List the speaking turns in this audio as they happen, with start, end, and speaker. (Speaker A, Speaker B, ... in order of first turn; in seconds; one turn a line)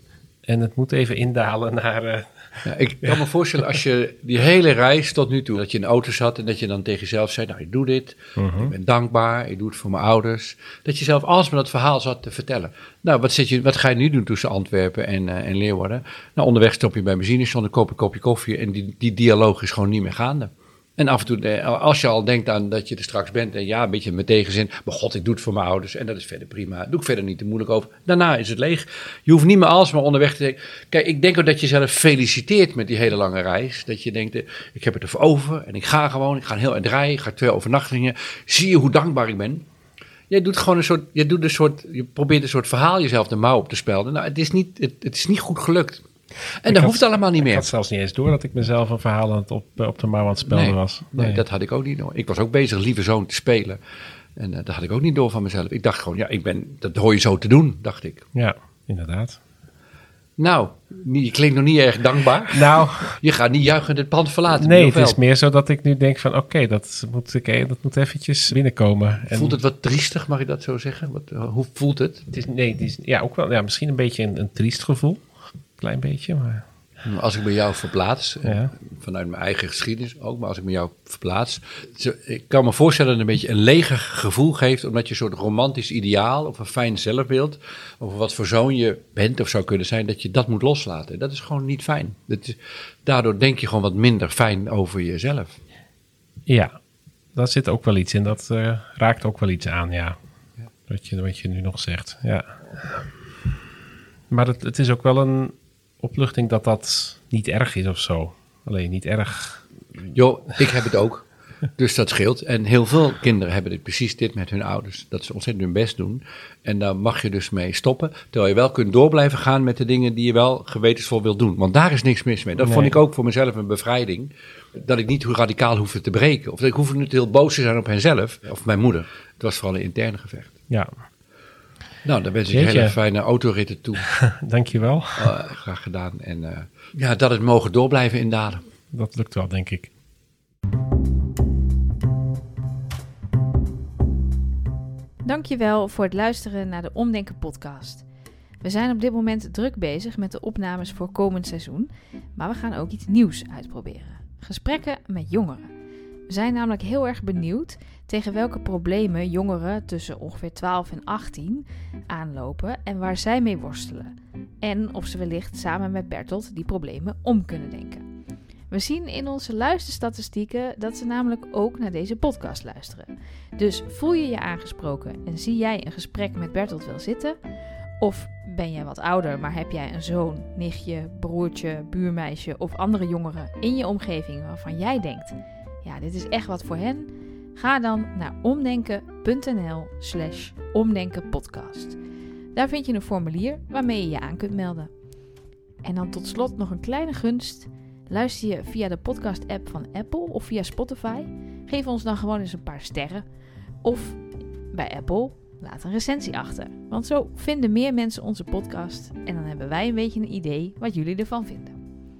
Speaker A: 0.5-3.2
Speaker B: 2.6-39.6
Speaker A: 8.4-8.7
Speaker B: 40.3-46.0
Speaker B: 46.6-47.7
Speaker A: 46.7-51.4
Speaker B: 50.5-53.8
Speaker B: 54.4-58.2
Speaker A: 58.3-59.4
Speaker B: 60.4-65.2
Speaker A: 62.5-63.2
Speaker A: 64.6-69.6
Speaker B: 69.3-72.2
Speaker A: 72.3-75.2
Speaker A: 75.8-76.6
Speaker B: 77.0-95.6
Speaker A: 78.4-78.7
Speaker A: 96.5-96.7
Speaker A: 97.3-100.2
Speaker A: 100.9-103.1
Speaker A: 104.3-109.6
Speaker B: 110.1-111.3
Speaker B: 111.8-130.5
Speaker A: 122.6-122.9
Speaker B: 132.0-134.1
Speaker A: 132.5-132.9
Speaker A: 134.0-135.3
Speaker B: 135.2-138.6
Speaker A: 138.9-139.9
Speaker C: 145.2-148.0
Speaker C: 148.6-155.7
Speaker C: 156.3-168.0
Speaker C: 168.7-177.4
Speaker C: 178.0-192.0
Speaker C: 192.5-194.9
Speaker C: 195.8-203.2
Speaker C: 203.8-211.8